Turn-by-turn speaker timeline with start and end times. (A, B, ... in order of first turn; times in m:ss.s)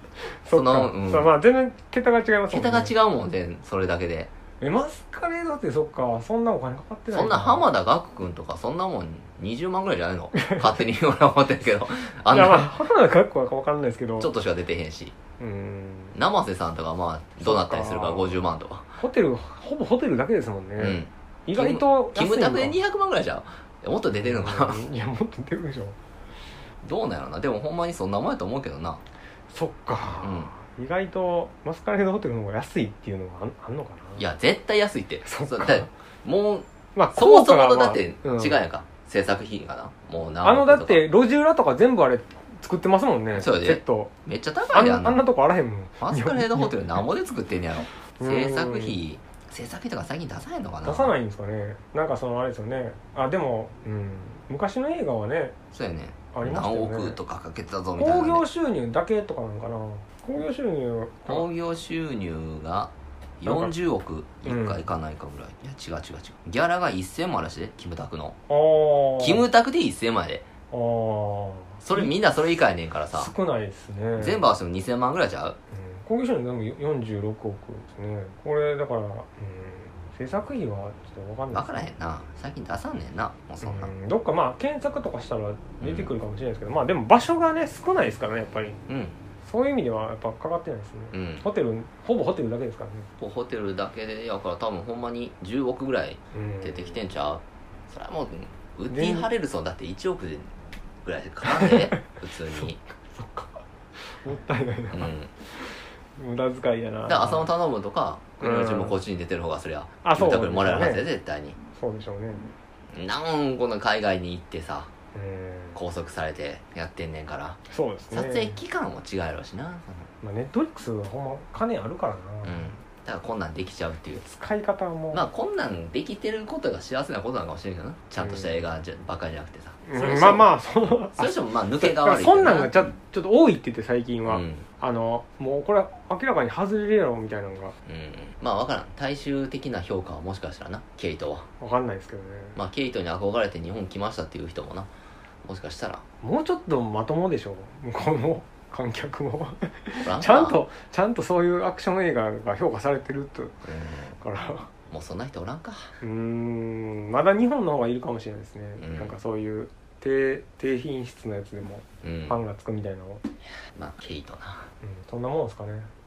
0:00.2-0:02.9 A
0:00.5-0:01.3 B
0:02.5-0:04.3 B
0:04.6-0:07.7 A
0:07.1-0:12.7 B
0:10.3-0:10.7 A
0:12.3-0:14.3 A
0:14.2-0:15.1 B
0:15.4-0:16.1 A
0:16.1-0:18.9 B
0:17.4-0:18.4 A
0:19.0-0:22.8 A
0:20.8-0:24.8 B
0:24.1-0:26.0 A
0:26.8-0:29.0 B
0:29.5-0:34.2 A
0:30.2-0:30.5 B
0:34.2-0:41.0 B
0:35.2-0:35.9 A
0:36.9-0:38.6 A
0:40.4-0:44.1 A
0:43.3-0:45.2 B
0:44.7-0:46.8 A
0:46.0-0:51.1 B
0:48.2-0:49.0 A
0:50.8-0:55.6 A
0:55.7-0:58.4 B
0:56.3-0:57.2 A
0:58.0-1:01.4 A
1:01.3-1:08.4 B
1:03.5-1:03.7 A
1:04.4-1:04.8 A
1:08.5-1:09.4 A
1:09.2-1:10.5 B
1:10.7-1:12.1 A
1:11.8-1:13.3 B
1:13.1-1:14.5 A
1:14.2-1:15.6 B
1:15.7-1:21.9 A
1:21.5-1:23.9 B
1:23.6-1:28.8 A
1:25.8-1:26.1 B
1:28.9-1:29.2 B
1:29.4-1:33.1 A
1:31.1-1:31.4 B
1:33.2-1:42.8 B
1:36.3-1:37.0 A
1:38.9-1:39.3 A
1:41.4-1:47.5 A
1:44.9-1:45.3 B
1:47.0-1:51.6 B
1:48.4-1:49.0 A
1:50.0-1:51.0 A
1:51.7-1:52.5 A
1:52.9-1:54.9 B
1:55.1-1:55.8 A
1:55.7-2:00.1 B
1:57.7-1:58.6 A
2:00.2-2:02.7 A
2:02.4-2:04.2 B
2:04.2-2:05.2 A
2:05.1-2:12.9 B
2:08.2-2:08.5 A
2:09.9-2:17.7 A
2:14.3-2:14.6 B
2:17.8-2:21.5 B
2:21.6-2:22.6 A
2:22.5-2:24.9 B
2:25.4-2:26.0 B
2:26.2-2:33.6 A
2:30.0-2:30.6 B
2:33.6-2:34.2 B
2:34.2-2:34.7 A
2:34.9-2:36.0 B
2:36.0-2:43.2 A
2:38.8-2:39.1 B
2:42.0-2:42.4 B
2:43.7-2:44.7 B
2:44.8-2:45.9 A